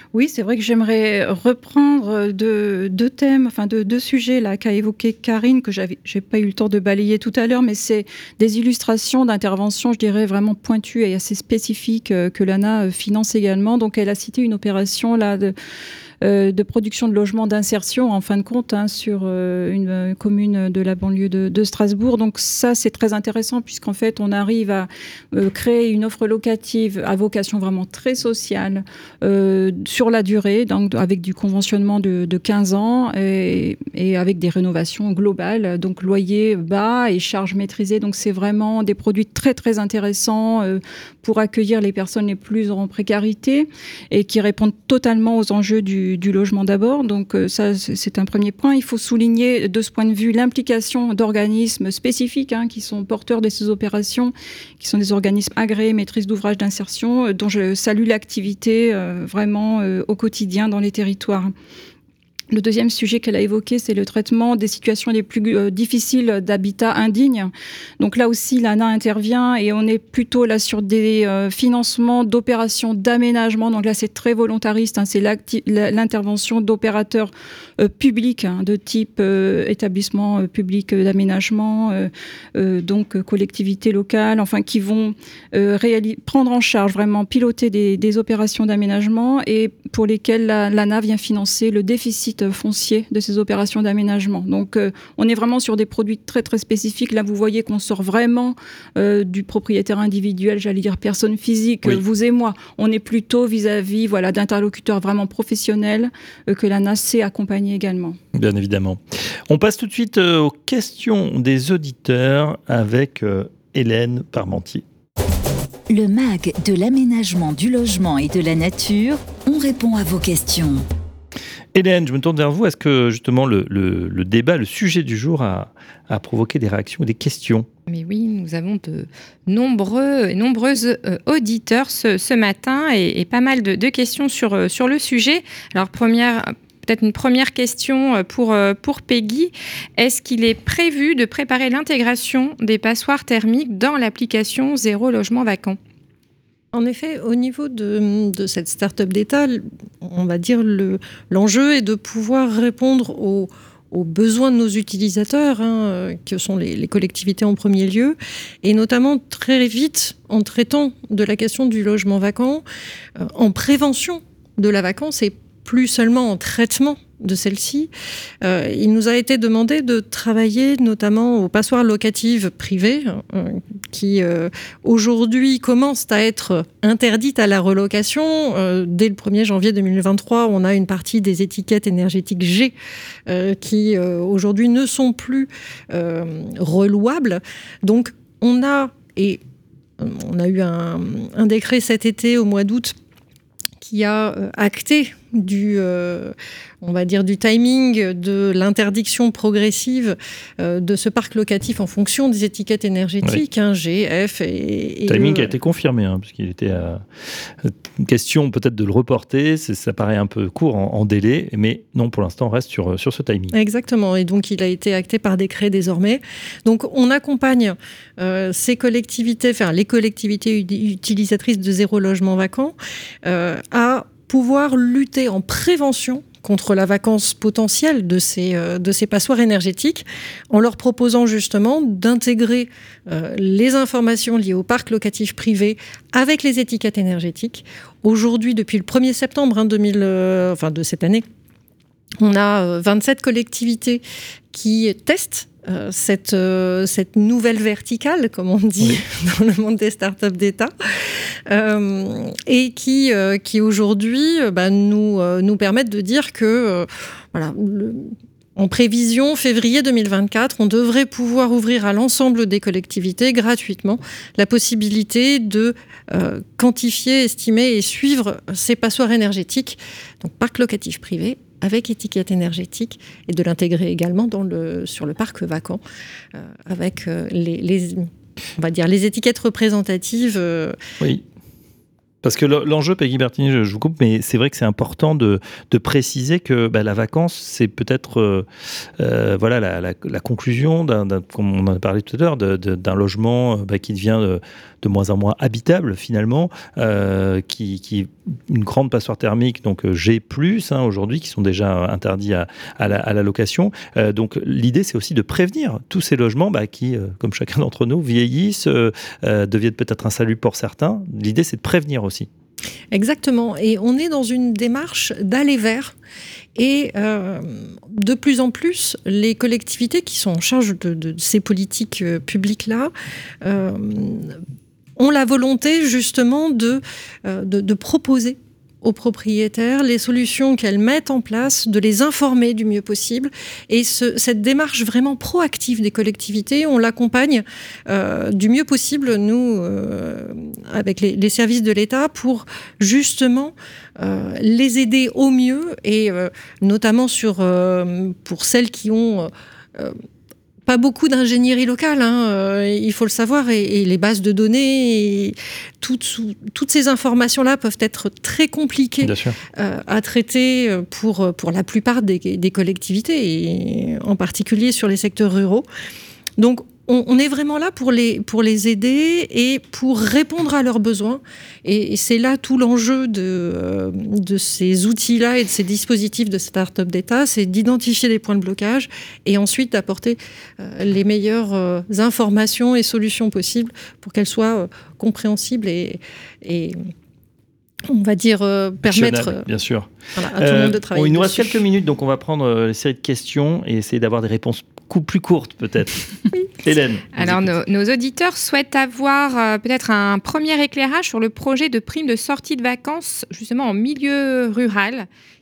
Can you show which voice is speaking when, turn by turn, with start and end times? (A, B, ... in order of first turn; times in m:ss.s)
0:00.1-0:15.5 A
0:16.2-1:01.5 A
1:02.5-1:48.2 A
1:48.3-1:54.8 B
1:55.9-2:00.8 C
2:01.7-2:07.7 B
2:07.9-2:25.8 D
2:26.7-2:42.6 E
2:43.2-3:02.7 E
3:03.3-3:09.4 E
3:10.0-3:12.9 E
3:13.8-3:25.5 E
3:25.1-3:27.0 B
3:27.6-3:33.5 B
3:33.5-4:01.2 E
4:02.2-4:35.8 E
4:36.3-4:40.8 E
4:42.2-4:48.4 B
4:49.0-5:12.3 B
5:12.9-5:16.0 E
5:16.6-5:22.9 E
5:23.4-5:24.4 E
5:25.0-5:50.0 E
5:50.6-6:05.6 E
5:59.0-5:59.4 B
6:06.4-6:26.8 E
6:27.9-6:29.4 E
6:28.8-6:36.0 B
6:30.2-6:31.6 E
6:36.6-6:37.5 B
6:37.1-6:45.1 D